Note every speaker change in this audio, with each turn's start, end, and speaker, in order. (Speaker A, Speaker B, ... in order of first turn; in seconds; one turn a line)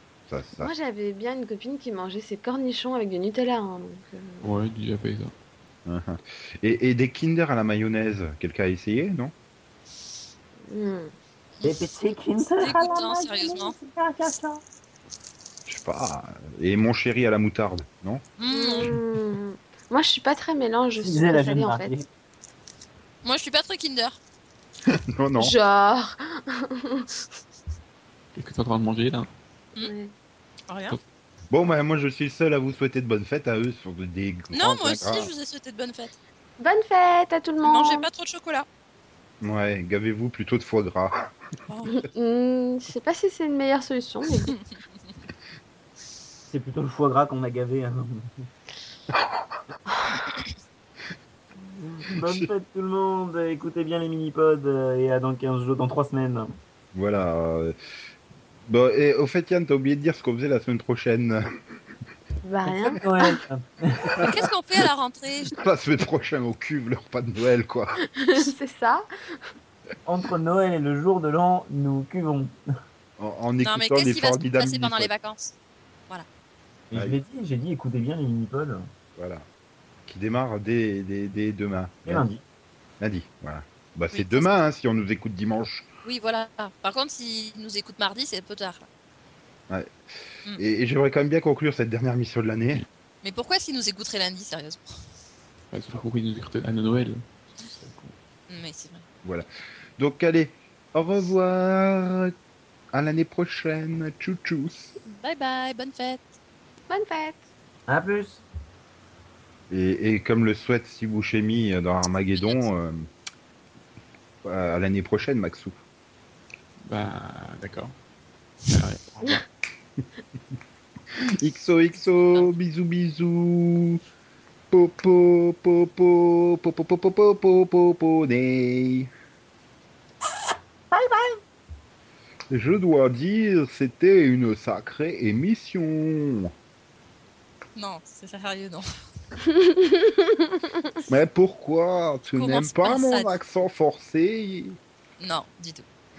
Speaker A: 0.3-0.7
Speaker B: 0.6-4.5
Speaker C: 4.4-5.3
Speaker A: 5.8-9.3
Speaker B: 10.7-11.1
Speaker D: 11.6-14.6
Speaker E: 12.6-13.7
Speaker A: 15.7-18.2
Speaker E: 18.4-18.9
Speaker B: 18.5-21.9
Speaker D: 21.0-22.1
Speaker E: 23.2-24.2
Speaker A: 24.9-25.5
Speaker B: 25.4-27.2
Speaker C: 28.4-29.3
Speaker B: 29.8-30.1
Speaker E: 30.7-31.0
Speaker A: 31.5-35.3
Speaker E: 34.5-36.2
Speaker B: 36.6-38.1
Speaker E: 37.6-38.6
Speaker A: 39.4-41.3
Speaker E: 41.7-42.0
Speaker B: 41.9-44.6
Speaker D: 46.5-48.3
Speaker D: 51.6-56.5
Speaker A: 52.1-52.5
Speaker A: 56.9-57.8
Speaker A: 58.6-61.5
Speaker B: 62.4-63.4
Speaker D: 63.0-64.4
Speaker A: 64.2-64.5
Speaker E: 64.2-65.5
Speaker A: 65.5-68.0
Speaker B: 68.2-69.0
Speaker D: 70.0-72.5
Speaker A: 73.2-75.1
Speaker E: 73.6-75.5
Speaker D: 76.9-78.9
Speaker A: 76.9-77.2
Speaker A: 79.2-79.5
Speaker A: 80.1-82.3
Speaker D: 82.0-82.4
Speaker A: 83.0-85.9
Speaker E: 84.1-84.5
Speaker E: 86.0-88.9
Speaker A: 89.7-89.9
Speaker A: 90.5-92.8
Speaker E: 93.2-94.9
Speaker C: 95.7-98.1
Speaker E: 98.5-99.0
Speaker A: 100.0-102.3
Speaker A: 102.9-104.9
Speaker E: 105.0-106.2
Speaker B: 106.9-107.5
Speaker D: 107.9-108.4
Speaker A: 109.7-113.1
Speaker A: 114.4-115.8
Speaker C: 116.8-117.9
Speaker C: 118.7-119.5
Speaker A: 121.1-124.0
Speaker A: 124.7-129.1
Speaker D: 130.9-131.4
Speaker A: 132.5-136.5
Speaker E: 137.8-138.9
Speaker B: 139.4-141.0
Speaker A: 141.1-144.8
Speaker E: 142.3-143.3
Speaker E: 145.2-145.8